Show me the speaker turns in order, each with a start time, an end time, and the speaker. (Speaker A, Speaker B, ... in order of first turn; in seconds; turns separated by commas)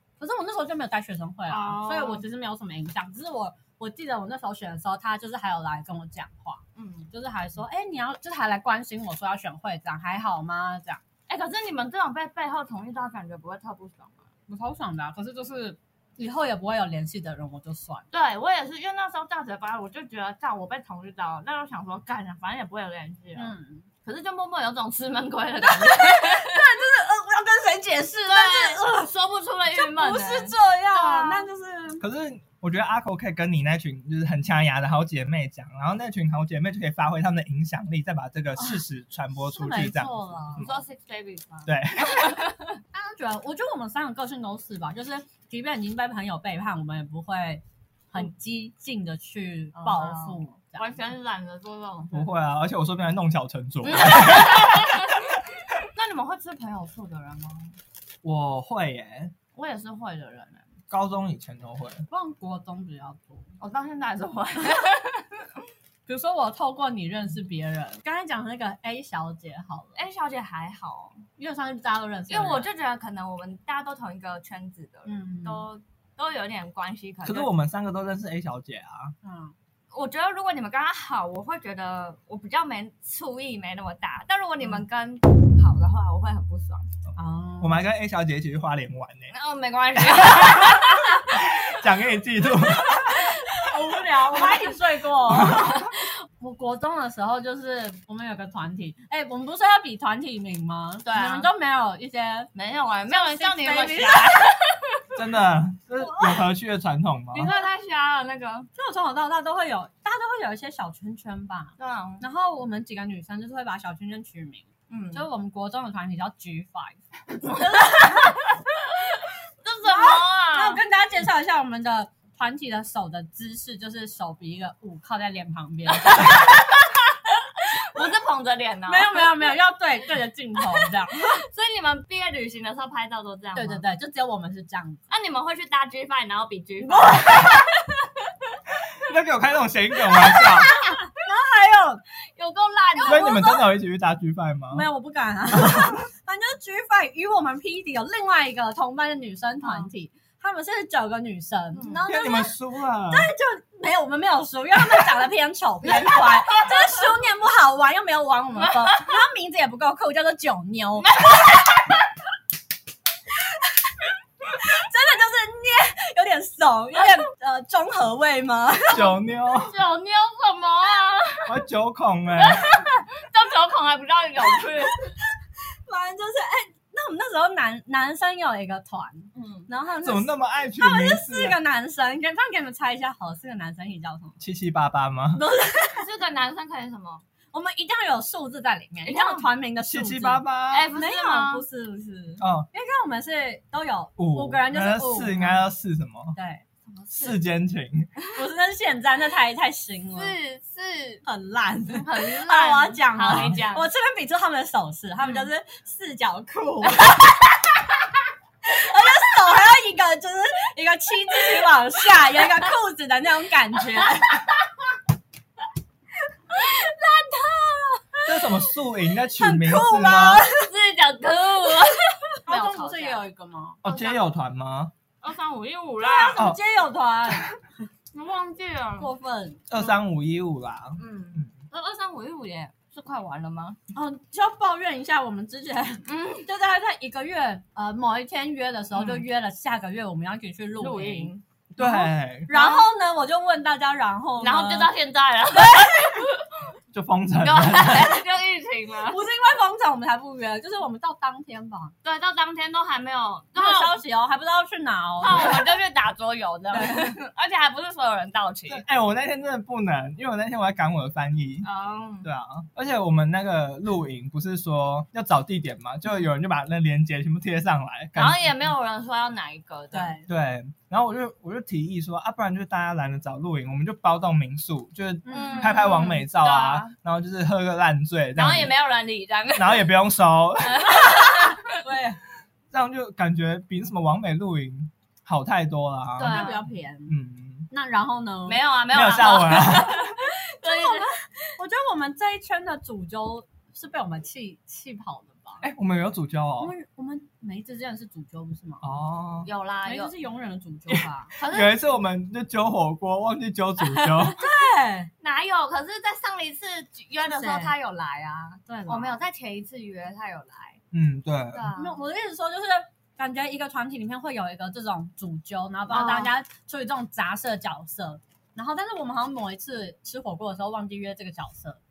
Speaker A: 0.2-11.0, Speaker B: 1.5-2.2, Speaker B: 6.8-7.1, Speaker B: 11.3-14.3, Speaker A: 14.5-18.1, Speaker B: 18.1-26.6, Speaker A: 23.4-23.9, Speaker A: 25.7-29.1, Speaker B: 28.3-31.5, Speaker A: 29.7-32.0, Speaker C: 32.0-40.9, Speaker A: 39.4-40.6, Speaker B: 40.6-42.8, Speaker C: 41.6-42.4, Speaker A: 42.9-51.0, Speaker B: 49.8-52.3, Speaker C: 52.1-55.4, Speaker B: 53.8-55.2, Speaker B: 55.9-57.8, Speaker C: 58.2-59.3, Speaker B: 59.5-60.7, Speaker C: 60.9-62.0, Speaker A: 62.1-63.5, Speaker B: 63.6-65.6, Speaker A: 66.1-70.0, Speaker B: 69.9-71.2, Speaker A: 71.4-72.7, Speaker B: 72.3-77.5, Speaker A: 75.0-75.7, Speaker C: 77.2-79.1, Speaker A: 79.2-79.5, Speaker B: 79.9-86.9, Speaker A: 87.2-87.8, Speaker C: 87.6-89.3, Speaker B: 89.3-91.4, Speaker C: 90.0-93.4, Speaker A: 93.1-102.5, Speaker B: 93.6-94.7, Speaker C: 95.3-95.7, Speaker B: 101.0-101.5, Speaker B: 102.5-105.2, Speaker A: 103.1-104.5, Speaker C: 105.1-107.5, Speaker A: 106.0-106.5, Speaker B: 107.3-108.7, Speaker A: 108.8-118.4, Speaker B: 111.8-112.3, Speaker B: 114.9-115.3, Speaker B: 117.5-120.8, Speaker A: 119.8-126.4, Speaker B: 126.0-126.9, Speaker B: 127.4-129.6, Speaker A: 128.9-131.4, Speaker B: 130.7-133.8, Speaker A: 133.6-135.0, Speaker B: 135.1-138.5, Speaker A: 136.8-137.7, Speaker C: 138.8-140.7, Speaker B: 140.1-140.6, Speaker A: 140.3-142.0, Speaker B: 142.3-143.6, Speaker A: 143.0-143.6, Speaker C: 143.1-144.9, Speaker A: 144.7-161.2, Speaker C: 145.6-145.9, Speaker B: 149.6-149.9, Speaker B: 151.7-152.0, Speaker C: 152.1-153.3, Speaker B: 155.8-156.9, Speaker B: 161.2-161.5, Speaker A: 163.4-163.7, Speaker A: 164.5-169.1, Speaker C: 168.9-169.8, Speaker B: 169.5-171.6, Speaker C: 171.4-172.7, Speaker B: 172.3-175.1, Speaker A: 174.9-175.3, Speaker A: 175.9-184.4, Speaker B: 179.3-179.7, Speaker C: 180.0-181.6, Speaker C: 184.4-185.4, Speaker A: 185.3-186.1, Speaker B: 186.0-187.2, Speaker A: 187.5-195.6, Speaker B: 189.0-189.6, Speaker C: 189.9-190.9, Speaker B: 190.7-191.7, Speaker C: 192.4-192.7, Speaker C: 194.2-196.4, Speaker A: 196.4-196.6, Speaker B: 196.9-197.4, Speaker C: 197.1-198.1, Speaker A: 198.3-200.4, Speaker B: 200.1-201.2, Speaker A: 201.2-207.4, Speaker B: 201.9-203.9, Speaker B: 205.2-205.5, Speaker A: 208.7-214.4, Speaker B: 214.1-214.4, Speaker B: 216.6-217.9, Speaker C: 218.3-220.4, Speaker A: 219.3-220.7, Speaker B: 220.6-223.2, Speaker A: 222.3-223.8, Speaker C: 223.8-224.9, Speaker B: 223.8-224.2, Speaker B: 225.2-226.4, Speaker A: 226.0-227.6, Speaker B: 228.1-229.1, Speaker A: 229.0-229.6, Speaker C: 229.7-231.5, Speaker B: 231.0-233.8, Speaker A: 233.9-244.9, Speaker B: 236.1-236.5, Speaker B: 238.9-239.2, Speaker B: 240.8-241.4, Speaker C: 241.7-242.5, Speaker B: 242.5-242.9, Speaker B: 244.4-246.6, Speaker C: 246.9-248.2, Speaker B: 247.4-249.2, Speaker A: 249.1-251.9, Speaker B: 252.0-254.0, Speaker A: 253.6-255.7, Speaker B: 255.2-258.8, Speaker A: 256.7-257.1, Speaker C: 258.7-261.7, Speaker B: 261.6-262.3, Speaker C: 262.2-268.5, Speaker B: 268.1-270.1, Speaker A: 269.9-270.3, Speaker C: 270.3-278.7, Speaker A: 275.3-275.9, Speaker B: 275.3-276.9, Speaker B: 278.4-279.9, Speaker C: 279.6-281.3, Speaker B: 280.6-281.8, Speaker A: 281.7-282.2, Speaker C: 282.7-287.7, Speaker B: 286.2-286.6, Speaker A: 286.3-287.1, Speaker A: 287.7-288.6, Speaker B: 288.5-291.1, Speaker C: 288.9-290.1, Speaker A: 290.2-295.6, Speaker C: 295.6-296.7, Speaker A: 296.6-298.9, Speaker C: 298.8-299.5, Speaker B: 299.4-300.1, Speaker A: 299.9-301.3, Speaker C: 300.9-304.4, Speaker B: 301.4-301.8, Speaker B: 303.8-304.4, Speaker A: 304.4-305.1, Speaker B: 305.2-310.8, Speaker A: 307.3-307.7, Speaker A: 308.6-309.2, Speaker C: 310.9-311.7, Speaker B: 311.5-312.0, Speaker A: 311.8-321.8, Speaker B: 315.9-316.3